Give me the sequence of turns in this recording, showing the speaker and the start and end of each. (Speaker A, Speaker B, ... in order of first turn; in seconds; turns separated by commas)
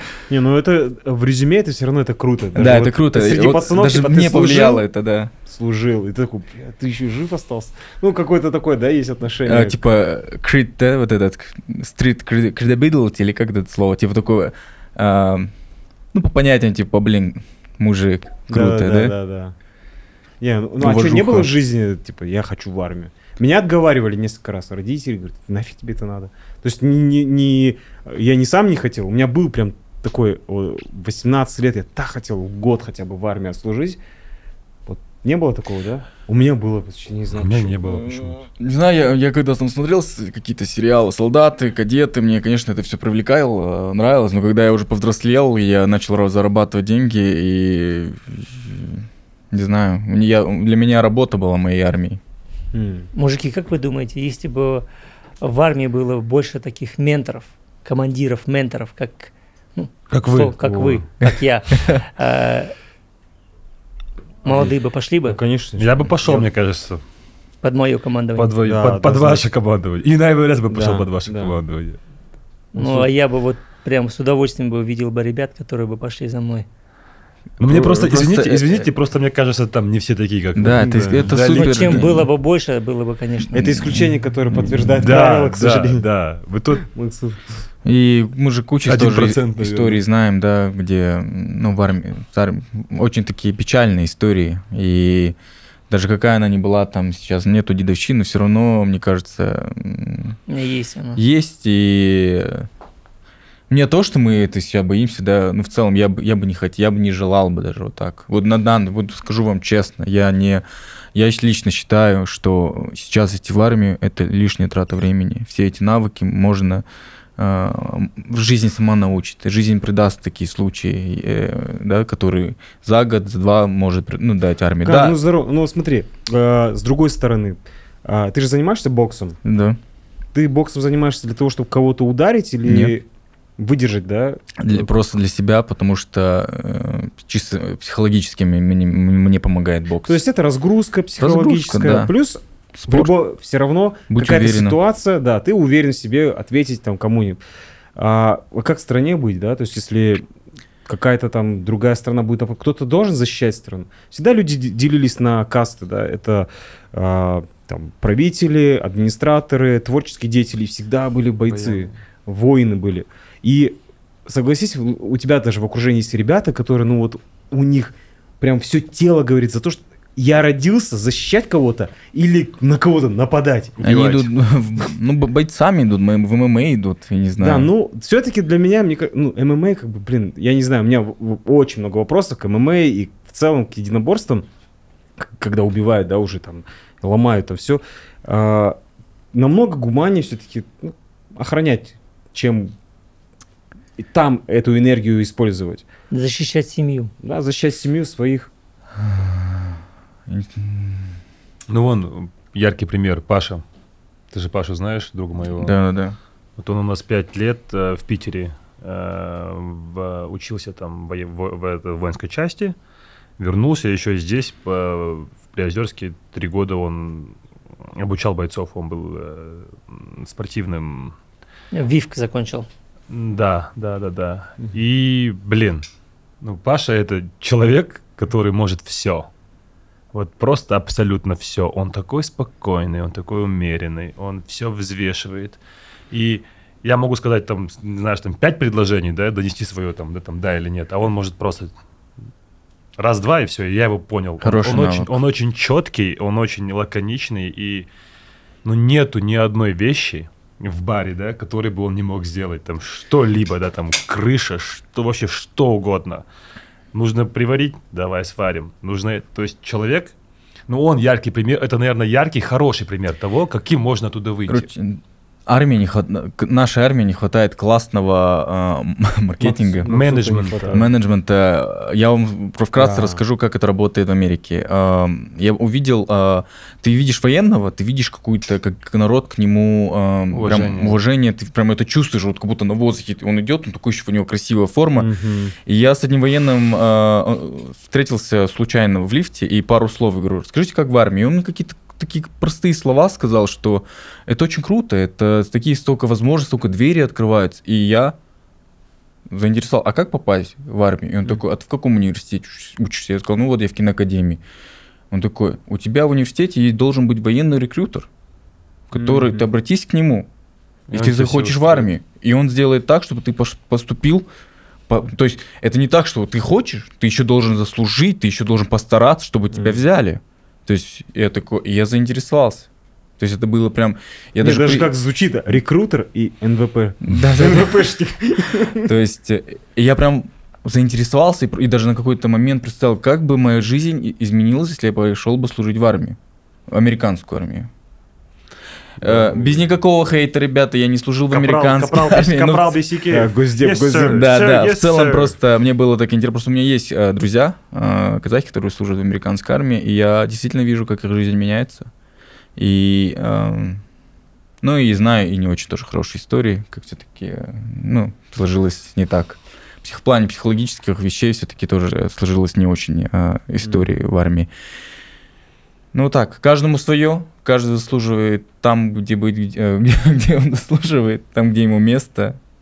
Speaker A: 0.3-4.8, Speaker B: 2.5-5.3, Speaker A: 5.5-9.8, Speaker B: 9.4-15.5, Speaker B: 16.1-19.1, Speaker A: 18.5-19.5, Speaker A: 20.4-34.0, Speaker B: 20.8-21.5, Speaker A: 34.9-38.4, Speaker C: 37.3-38.4, Speaker B: 38.6-52.2, Speaker A: 52.7-53.1, Speaker D: 53.1-54.8, Speaker D: 55.4-62.7, Speaker C: 60.1-61.0, Speaker A: 60.6-61.0, Speaker B: 61.7-62.0, Speaker D: 64.4-65.4, Speaker A: 65.2-66.5, Speaker C: 65.8-67.0, Speaker D: 67.6-68.6, Speaker C: 68.3-72.0, Speaker A: 68.6-69.4, Speaker A: 70.7-71.6, Speaker D: 72.7-76.7, Speaker A: 72.8-73.1, Speaker C: 77.6-82.1, Speaker B: 77.6-78.9, Speaker B: 80.5-82.3, Speaker A: 80.8-81.2, Speaker D: 81.5-84.0, Speaker A: 83.5-86.0, Speaker B: 83.8-85.0, Speaker C: 85.0-86.8, Speaker A: 86.8-87.4, Speaker B: 87.8-95.3, Speaker C: 88.8-90.0, Speaker B: 95.9-100.4, Speaker D: 100.5-101.2, Speaker B: 101.2-102.7, Speaker B: 103.7-116.8, Speaker B: 117.4-125.2, Speaker A: 124.8-129.4, Speaker B: 129.4-129.8, Speaker A: 130.3-133.1, Speaker B: 132.6-132.9, Speaker A: 133.6-134.9, Speaker B: 134.6-140.2, Speaker A: 140.1-147.4, Speaker B: 141.2-142.1, Speaker B: 142.8-143.1, Speaker B: 144.1-144.8, Speaker A: 147.9-150.2, Speaker A: 150.8-174.3, Speaker C: 161.5-161.9, Speaker B: 173.8-177.7, Speaker A: 177.4-184.4, Speaker A: 185.2-188.8, Speaker A: 189.3-192.7, Speaker A: 194.0-195.8, Speaker D: 196.1-197.1, Speaker A: 197.2-198.5, Speaker B: 198.9-201.2, Speaker C: 201.7-203.6, Speaker C: 204.3-205.8, Speaker B: 205.6-206.2, Speaker C: 206.6-212.8, Speaker C: 213.4-217.4, Speaker C: 217.9-221.2, Speaker D: 221.7-222.7, Speaker C: 223.1-225.9, Speaker C: 226.4-229.3, Speaker C: 230.1-235.6, Speaker C: 236.1-241.7, Speaker C: 243.0-247.9, Speaker B: 244.4-245.2, Speaker C: 248.6-256.2, Speaker C: 256.9-260.1, Speaker C: 260.7-264.7, Speaker B: 264.5-269.9, Speaker A: 269.4-270.9, Speaker C: 269.8-270.9, Speaker B: 270.7-285.1, Speaker A: 272.8-273.2, Speaker C: 280.3-281.0, Speaker A: 284.9-285.5, Speaker B: 285.6-298.1, Speaker B: 299.3-304.4, Speaker B: 305.1-308.1, Speaker B: 308.9-310.3, Speaker A: 308.9-309.4, Speaker C: 310.9-311.9, Speaker B: 310.9-314.3, Speaker B: 314.9-322.7, Speaker A: 319.5-319.8, Speaker B: 323.2-324.9, Speaker A: 324.4-328.9, Speaker B: 327.0-327.9, Speaker B: 328.8-336.2, Speaker B: 336.7-337.7, Speaker B: 339.0-342.9, Speaker A: 339.0-339.7, Speaker C: 341.3-345.4, Speaker A: 343.1-344.2, Speaker B: 344.1-351.9, Speaker B: 352.6-353.8, Speaker B: 354.6-364.5, Speaker A: 363.6-363.9, Speaker B: 365.9-372.4